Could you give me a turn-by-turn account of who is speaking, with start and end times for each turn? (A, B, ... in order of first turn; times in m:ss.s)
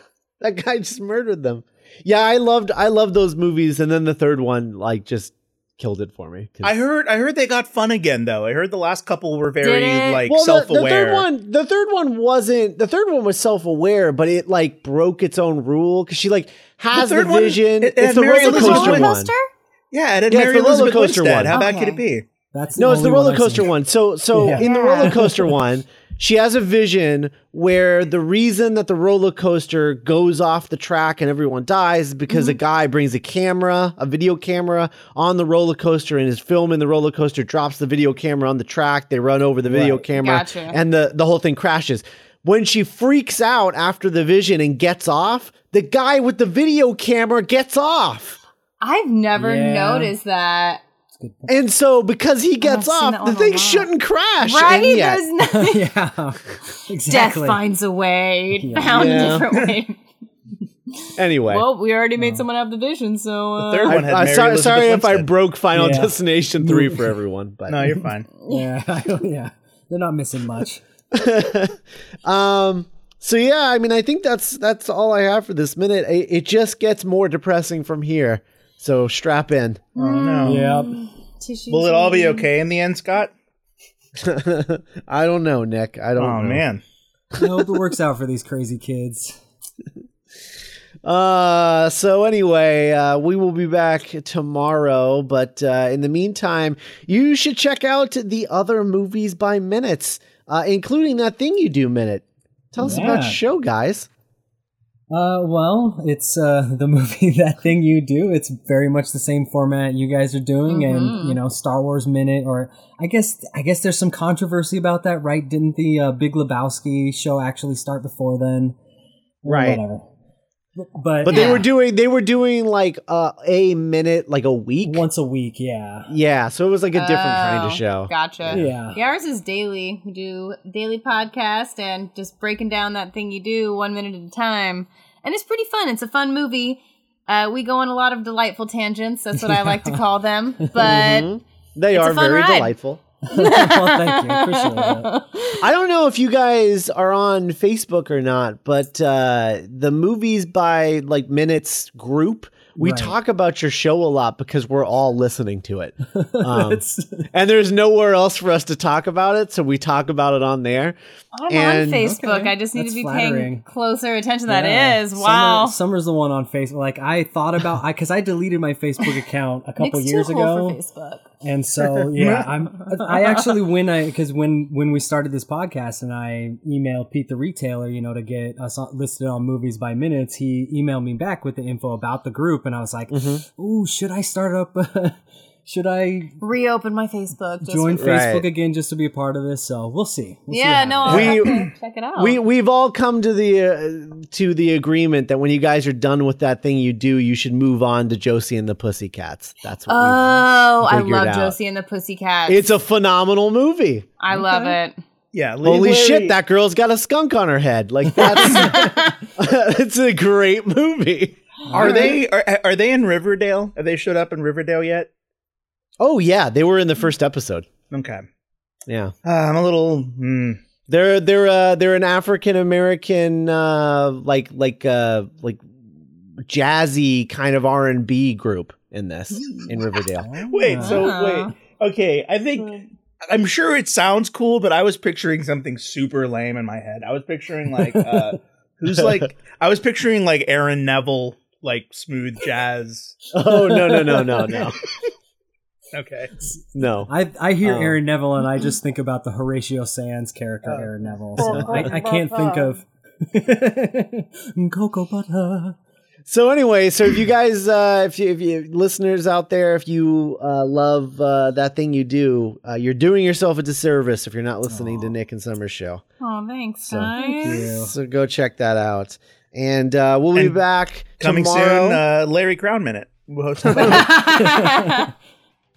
0:00.4-0:06.8 A
0:06.6-0:11.2 B
0:09.6-0:10.2 C
0:10.3-0:19.3 A
0:16.9-0:19.1 B
0:18.3-0:19.5 C
0:19.9-0:22.2 B
0:20.3-0:21.6 A
0:21.5-0:22.0 C
0:22.5-0:23.7 D
0:22.8-0:48.4 A
0:24.3-0:24.7 D
0:24.5-0:25.3 C
0:32.3-0:32.6 C
0:39.6-0:40.0 D
0:40.1-0:40.8 C
0:48.8-0:50.8 C
0:49.4-0:50.1 D
0:51.1-0:51.6 D
0:51.5-0:55.2 A
0:52.6-0:53.9 C
0:54.4-0:55.9 C
0:55.4-0:57.6 D
0:57.1-1:00.0 C
0:58.5-0:59.4 D
0:58.9-0:59.5 A
0:59.5-0:59.8 B
1:01.0-1:04.0 C
1:01.1-1:01.6 A
1:02.2-1:02.4 D
1:03.6-1:05.3 B
1:03.9-1:07.9 A
1:05.7-1:07.2 D
1:07.7-1:08.3 B
1:07.8-1:10.8 D
1:08.4-1:08.7 C
1:11.1-1:19.8 A
1:20.0-1:20.7 B
1:20.0-1:22.5 C
1:20.4-1:21.0 D
1:21.7-1:23.3 B
1:24.2-1:26.6 A
1:26.2-1:26.8 B
1:27.3-1:29.4 D
1:31.0-1:44.1 A
1:42.8-1:43.4 D
1:45.1-1:58.8 D
1:50.7-1:51.4 C
1:59.4-2:00.1 D
1:59.4-1:59.8 A
2:00.8-2:01.6 D
2:01.2-2:05.0 A
2:01.3-2:01.6 C
2:04.8-2:06.1 D
2:06.1-2:08.7 A
2:06.9-2:21.3 C
2:08.5-2:09.0 D
2:19.4-2:20.0 D
2:20.8-2:23.0 A
2:21.9-2:22.7 C
2:23.2-2:25.1 D
2:23.3-2:25.6 C
2:25.6-2:41.0 A
2:32.8-2:33.2 D
2:36.1-2:37.3 D
2:41.3-2:45.8 C
2:41.5-2:42.2 A
2:42.0-2:43.6 D
2:44.4-2:50.8 D
2:49.8-2:51.3 C
2:51.4-3:06.4 D
2:52.1-2:53.0 B
3:03.1-3:03.4 A
3:06.4-3:08.1 C
3:07.6-3:11.6 D
3:08.0-3:08.4 A
3:10.5-3:12.4 C
3:11.0-3:21.6 A
3:19.9-3:22.6 C
3:22.5-3:24.1 A
3:24.2-3:25.0 C
3:24.3-3:24.8 D
3:25.3-3:26.4 B
3:25.6-3:32.1 A
3:28.1-3:29.0 D
3:28.2-3:29.2 C
3:31.7-3:32.1 D
3:31.7-3:35.1 B
3:31.8-3:32.0 C
3:36.0-3:37.7 A
3:37.9-3:38.2 B
3:38.9-3:39.1 A
3:39.2-3:40.6 B
3:40.9-3:45.6 A
3:46.3-3:50.3 A
3:49.3-3:50.0 C
3:50.2-3:51.1 D
3:50.5-3:52.8 B
3:50.8-3:51.5 C
3:52.6-3:52.8 C
3:53.3-4:03.2 B
3:57.7-3:58.4 D
4:03.3-4:04.8 A
4:03.4-4:04.6 D
4:05.9-4:06.3 B
4:06.7-4:07.1 A
4:06.8-4:15.8 D
4:07.6-4:08.0 A
4:10.6-4:11.9 B
4:11.4-4:11.8 A
4:11.7-4:12.8 C
4:16.2-4:26.0 A
4:24.7-4:25.1 D
4:26.2-4:27.6 C
4:26.8-4:32.0 A
4:27.0-4:27.9 D
4:30.3-4:30.6 B
4:31.2-4:34.3 B
4:33.8-4:35.1 C
4:34.3-4:35.1 D